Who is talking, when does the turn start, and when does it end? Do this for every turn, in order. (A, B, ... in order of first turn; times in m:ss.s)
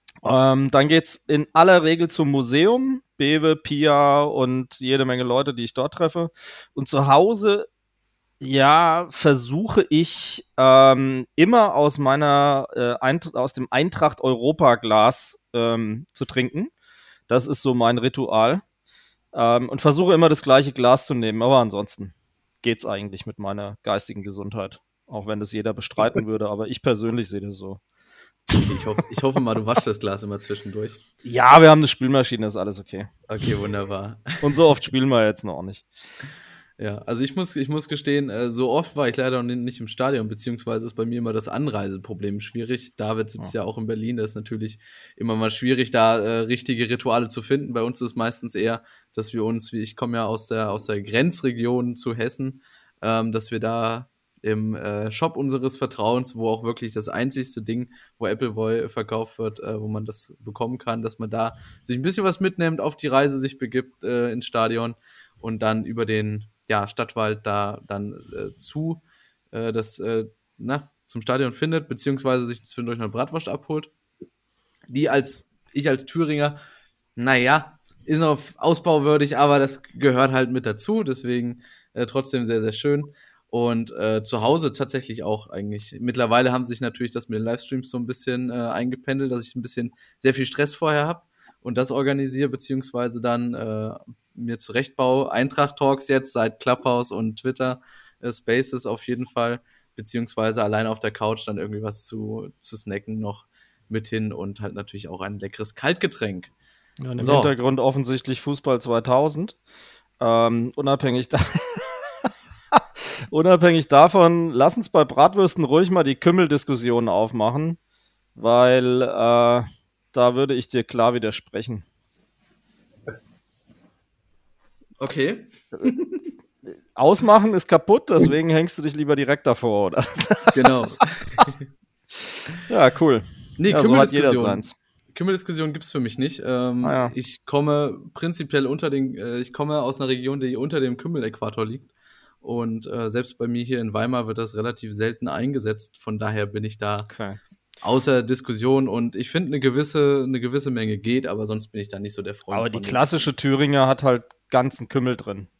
0:00.2-0:07.7 A
0:08.4-0:16.7 A
0:17.3-0:18.6 A
0:19.3-0:27.8 A
0:28.6-0:31.0 B
0:31.2-0:33.1 A
0:33.3-0:34.6 B
0:34.4-0:35.9 A
0:36.8-1:13.9 B
1:14.9-1:16.6 B
1:17.2-1:46.5 B
1:47.0-1:49.6 A
1:47.2-1:47.5 B
1:50.2-1:52.1 A
1:52.7-1:57.8 A
1:58.4-2:01.8 A
2:05.0-2:06.2 B
2:07.0-2:10.7 A
2:10.5-2:11.6 B
2:12.6-2:14.8 A
2:13.6-2:21.9 B
2:16.8-2:17.1 A
2:22.4-2:27.1 B
2:27.1-2:27.4 A
2:27.8-2:33.1 B
2:32.5-2:35.5 A